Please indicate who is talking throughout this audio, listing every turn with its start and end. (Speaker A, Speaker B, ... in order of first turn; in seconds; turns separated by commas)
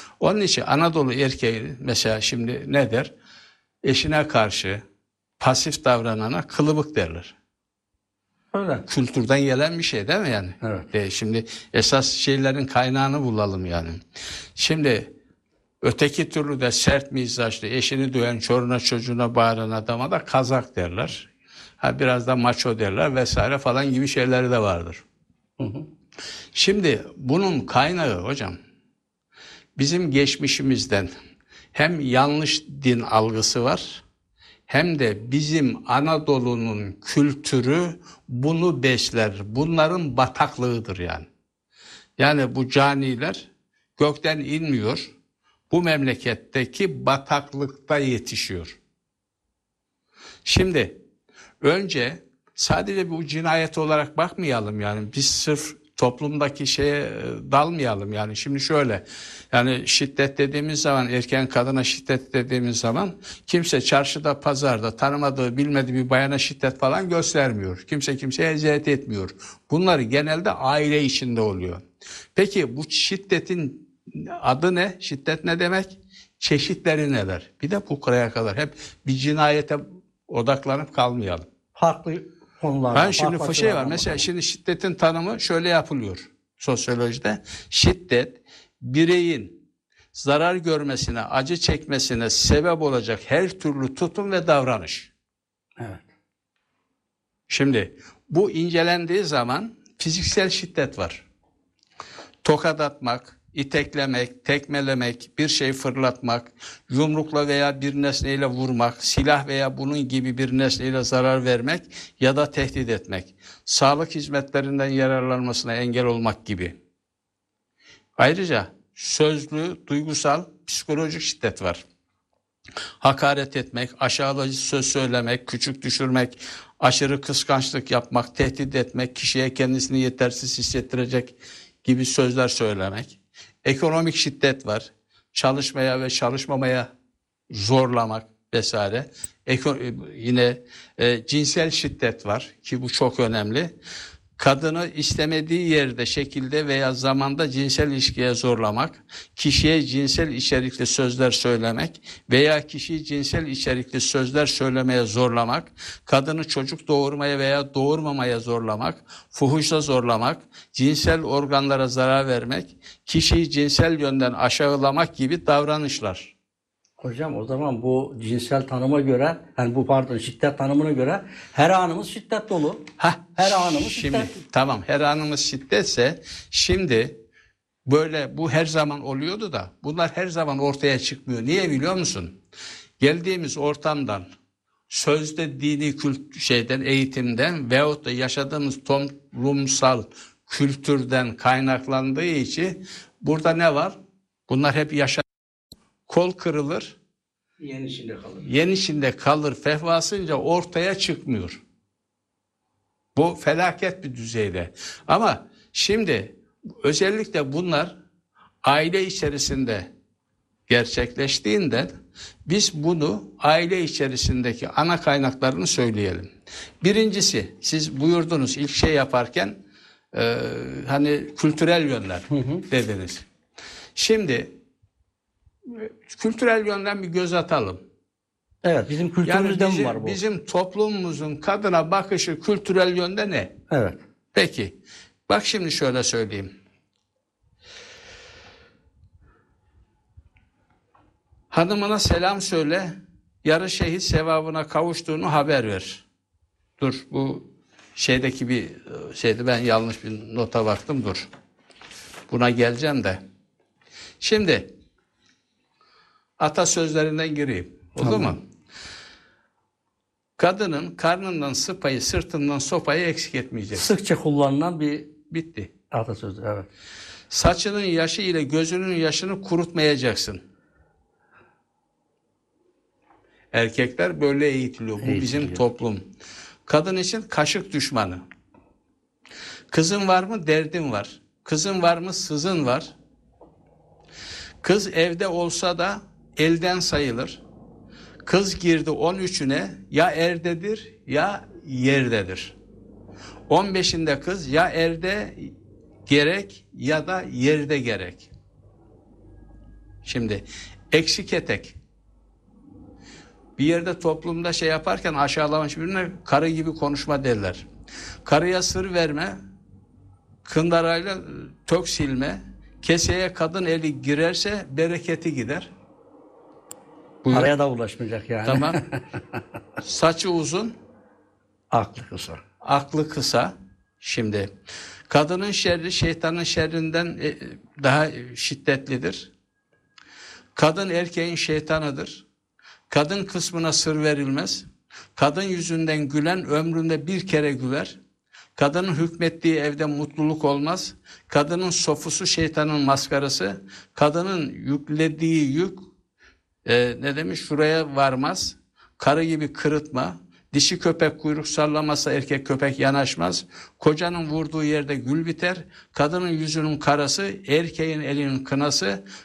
Speaker A: 0.2-3.1, Speaker A: 3.8-4.8, Speaker A: 5.4-7.3, Speaker B: 8.5-8.8, Speaker A: 8.9-14.0, Speaker B: 10.6-10.9, Speaker A: 14.5-15.1, Speaker A: 15.8-25.0, Speaker B: 25.6-25.9, Speaker A: 26.5-28.6, Speaker A: 29.8-31.1, Speaker A: 31.7-34.0, Speaker A: 34.7-41.3, Speaker A: 42.2-45.1, Speaker A: 45.7-48.8, Speaker A: 50.4-51.0, Speaker A: 51.6-71.8, Speaker A: 72.3-81.5, Speaker B: 81.7-84.2, Speaker A: 82.9-89.6, Speaker A: 90.1-95.1, Speaker B: 95.8-96.0, Speaker A: 97.5-101.2, Speaker A: 102.4-116.7, Speaker A: 118.2-121.8, Speaker A: 123.0-136.9, Speaker A: 137.5-143.7, Speaker A: 144.4-166.3, Speaker B: 167.0-172.9, Speaker A: 173.0-177.2, Speaker B: 173.4-174.3, Speaker A: 177.8-182.4, Speaker A: 183.0-184.3, Speaker A: 184.9-194.0, Speaker A: 194.5-195.2, Speaker A: 196.1-197.0, Speaker B: 197.6-198.4, Speaker A: 198.4-201.6, Speaker A: 203.1-207.9, Speaker A: 208.6-209.9, Speaker A: 210.7-211.9, Speaker A: 212.4-216.3, Speaker A: 216.8-219.6, Speaker A: 220.1-223.2, Speaker B: 222.3-222.6, Speaker A: 223.9-224.5, Speaker A: 225.7-227.8, Speaker B: 228.6-230.2, Speaker A: 229.2-233.6, Speaker B: 233.7-234.0, Speaker A: 234.3-234.8, Speaker A: 235.3-236.5, Speaker A: 241.5-246.0, Speaker A: 246.8-251.3, Speaker A: 252.3-253.2, Speaker A: 254.2-254.7, Speaker A: 256.4-258.4, Speaker B: 258.0-258.4, Speaker A: 260.4-263.9, Speaker B: 263.7-265.1, Speaker A: 265.3-265.7, Speaker B: 265.9-266.7, Speaker A: 267.3-270.4, Speaker A: 273.5-276.0, Speaker B: 275.0-275.6, Speaker A: 276.7-278.2, Speaker A: 279.7-282.9, Speaker A: 284.6-287.4, Speaker A: 288.2-292.6, Speaker A: 293.5-295.5, Speaker A: 296.1-298.3, Speaker A: 300.0-301.8, Speaker A: 303.6-307.7, Speaker A: 308.2-309.4, Speaker A: 310.4-315.7, Speaker A: 317.2-317.5, Speaker B: 317.3-319.0, Speaker A: 318.4-318.8, Speaker A: 319.8-320.7, Speaker B: 321.7-322.4, Speaker A: 322.6-324.5, Speaker A: 325.1-329.3, Speaker A: 330.5-332.2, Speaker A: 332.9-338.0, Speaker A: 338.6-345.8, Speaker A: 346.6-359.0